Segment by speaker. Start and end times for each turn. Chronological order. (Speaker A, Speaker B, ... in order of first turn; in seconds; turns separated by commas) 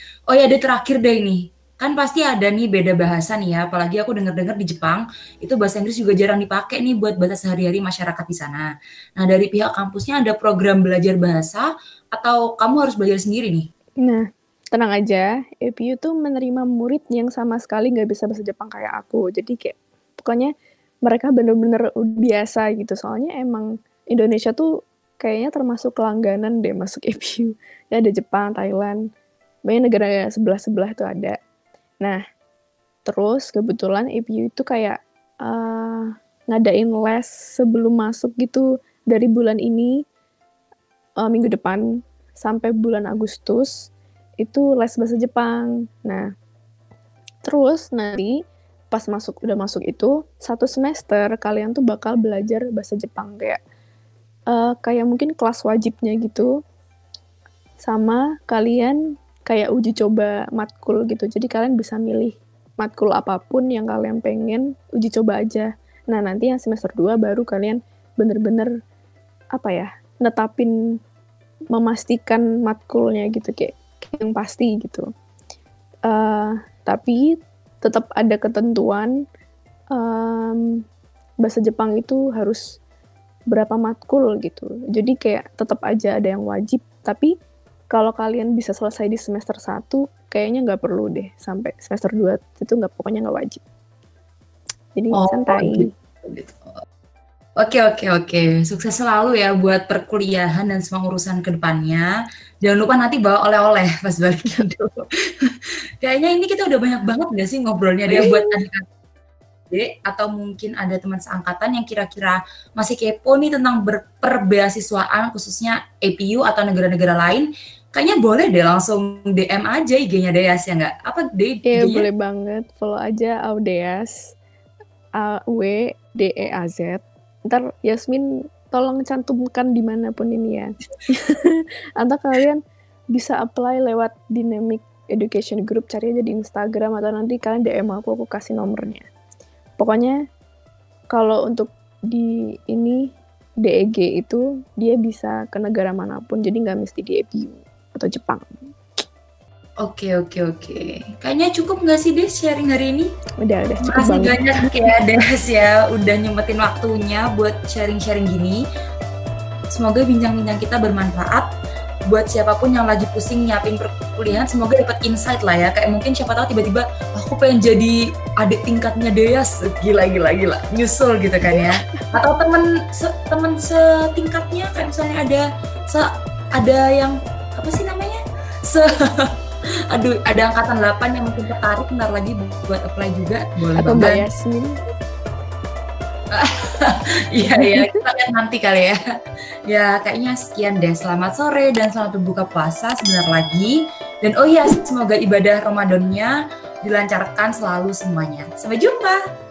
Speaker A: 0.3-13.7, Speaker B: 14.0-20.5, Speaker B: 21.0-24.7, Speaker B: 25.2-29.0, Speaker B: 29.6-31.4, Speaker B: 33.0-40.0, Speaker B: 41.2-41.8, Speaker B: 42.4-46.3, Speaker B: 47.4-48.4, Speaker B: 48.9-53.6, Speaker B: 54.5-56.5, Speaker B: 57.8-68.7, Speaker B: 69.5-70.7, Speaker B: 71.7-75.1, Speaker B: 76.1-79.1, Speaker B: 79.9-80.8, Speaker B: 81.4-82.8, Speaker B: 83.5-87.3, Speaker B: 87.9-93.6, Speaker B: 95.0-95.9, Speaker A: 95.1-96.6, Speaker A: 97.6-102.1, Speaker A: 102.6-108.8, Speaker B: 108.1-108.5, Speaker A: 109.7-122.1, Speaker B: 121.7-124.3, Speaker B: 125.2-132.6, Speaker B: 133.1-139.1, Speaker B: 139.8-140.2, Speaker B: 141.1-148.6, Speaker A: 149.8-153.1, Speaker B: 153.4-154.7, Speaker A: 153.8-158.6, Speaker A: 159.7-161.5, Speaker A: 162.1-179.3, Speaker B: 171.5-172.1, Speaker A: 179.9-184.2, Speaker B: 183.8-184.8, Speaker A: 186.3-189.0, Speaker B: 187.6-188.0, Speaker A: 189.7-199.2